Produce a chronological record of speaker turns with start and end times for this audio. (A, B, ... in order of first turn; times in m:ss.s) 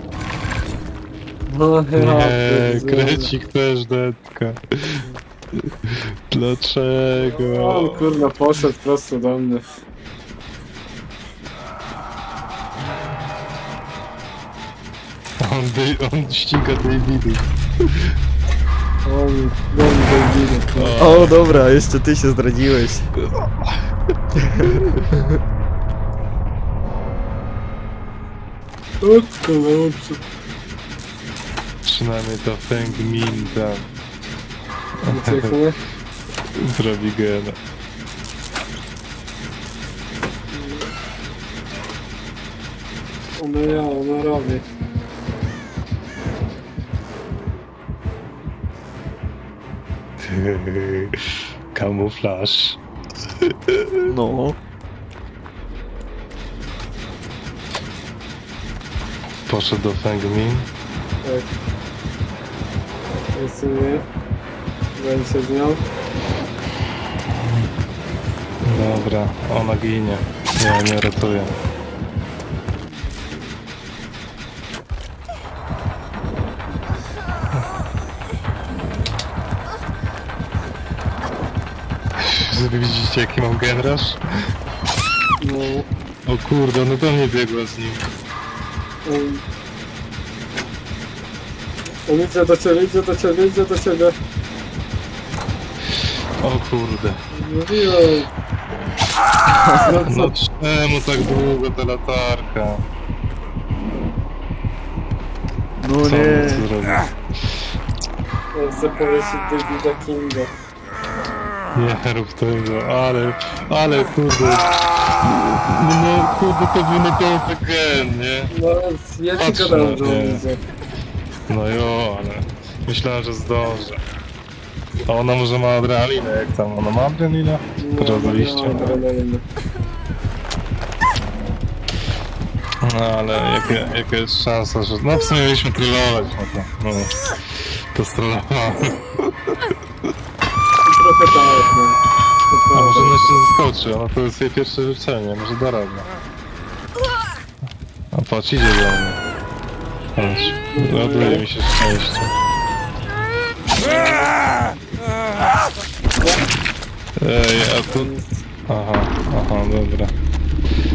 0:01.5-0:03.3 A
0:02.0-0:08.3 B
0:07.2-0:09.8 A
0:15.4-0:18.1 B
0:19.0-0:21.0 A
0:20.8-0:21.6 B
0:21.0-0:23.1 C
0:23.2-0:23.8 B
0:24.4-0:25.4 C
0:29.0-0:30.2 A
0:31.8-0:33.9 B
0:35.0-0:35.6 B
0:35.1-0:35.8 A
0:36.5-0:37.6 B
0:40.5-0:40.9 A
0:43.4-0:44.6 A
0:50.2-0:51.2 B
0:51.7-0:52.8 B
0:53.4-0:54.1 B
0:54.0-0:54.6 C
0:59.5-1:00.7 B
1:01.2-1:01.5 A
1:03.3-1:04.0 A
1:05.0-1:05.8 A
1:07.4-1:07.7 B
1:08.6-1:11.5 B
1:22.2-1:24.2 B
1:25.4-1:25.8 A
1:26.2-1:28.0 B
1:29.0-1:29.4 A
1:32.0-1:34.2 A
1:36.4-1:37.2 B
1:37.3-1:38.3 A
1:39.5-1:40.0 C
1:39.8-1:40.3 A
1:40.0-1:42.8 B
1:45.8-1:46.7 C
1:46.0-1:47.1 B
1:48.5-1:50.5 A
1:51.7-1:54.7 B
1:55.2-1:58.5 B
1:58.5-2:00.6 A
1:59.4-2:00.4 B
2:01.5-2:04.0 B
2:05.0-2:09.0 B
2:07.8-2:09.4 A
2:12.8-2:19.6 B
2:20.8-2:22.0 A
2:22.5-2:23.4 A
2:22.7-2:26.0 B
2:28.1-2:29.2 B
2:30.2-2:32.3 B
2:30.4-2:31.4 A
2:37.2-2:38.1 B
2:37.9-2:38.4 A
2:38.7-2:40.1 B